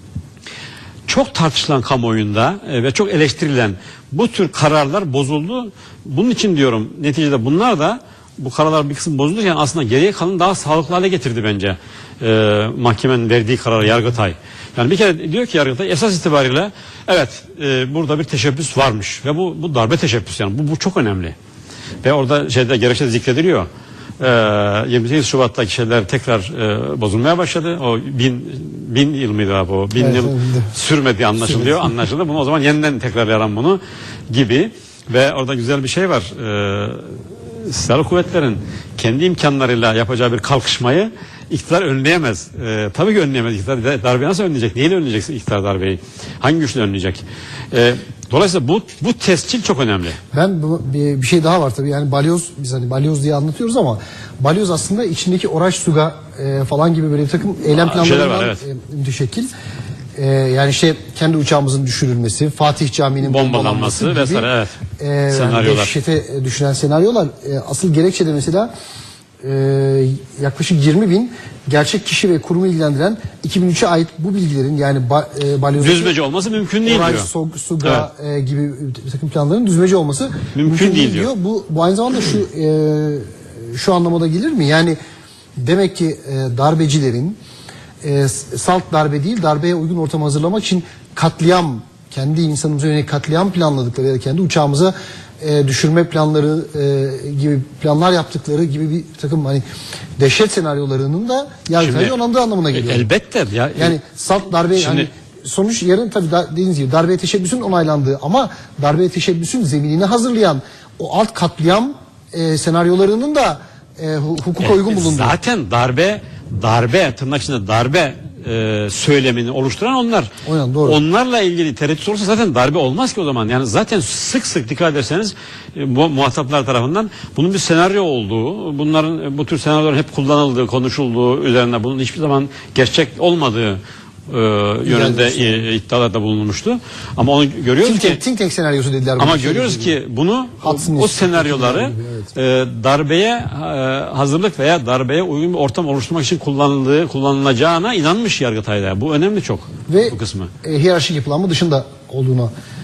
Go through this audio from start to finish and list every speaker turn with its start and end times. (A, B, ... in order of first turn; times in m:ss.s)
0:01.1-0:21.4 A
0:22.0-0:23.7 A
0:24.2-0:50.2 A
0:30.0-0:30.7 B
0:31.4-0:31.9 B
0:50.3-0:59.5 B
0:57.7-0:58.6 A
1:00.2-1:04.5 B
1:03.2-1:04.8 A
1:05.0-1:08.7 B
1:05.3-1:05.9 A
1:09.4-1:16.1 B
1:15.7-1:17.3 A
1:16.8-1:25.0 B
1:20.5-1:21.3 A
1:25.6-1:27.4 B
1:28.0-1:39.6 B
1:40.2-1:43.1 B
1:41.8-1:42.1 A
1:42.7-1:44.0 A
1:43.8-1:55.3 B
1:44.7-1:45.1 A
1:54.6-2:00.3 A
2:00.4-2:01.0 B
2:00.8-2:18.2 A
2:14.8-2:15.7 B
2:17.8-2:20.0 B
2:19.2-2:30.5 A
2:20.6-2:22.3 B
2:29.9-2:32.5 B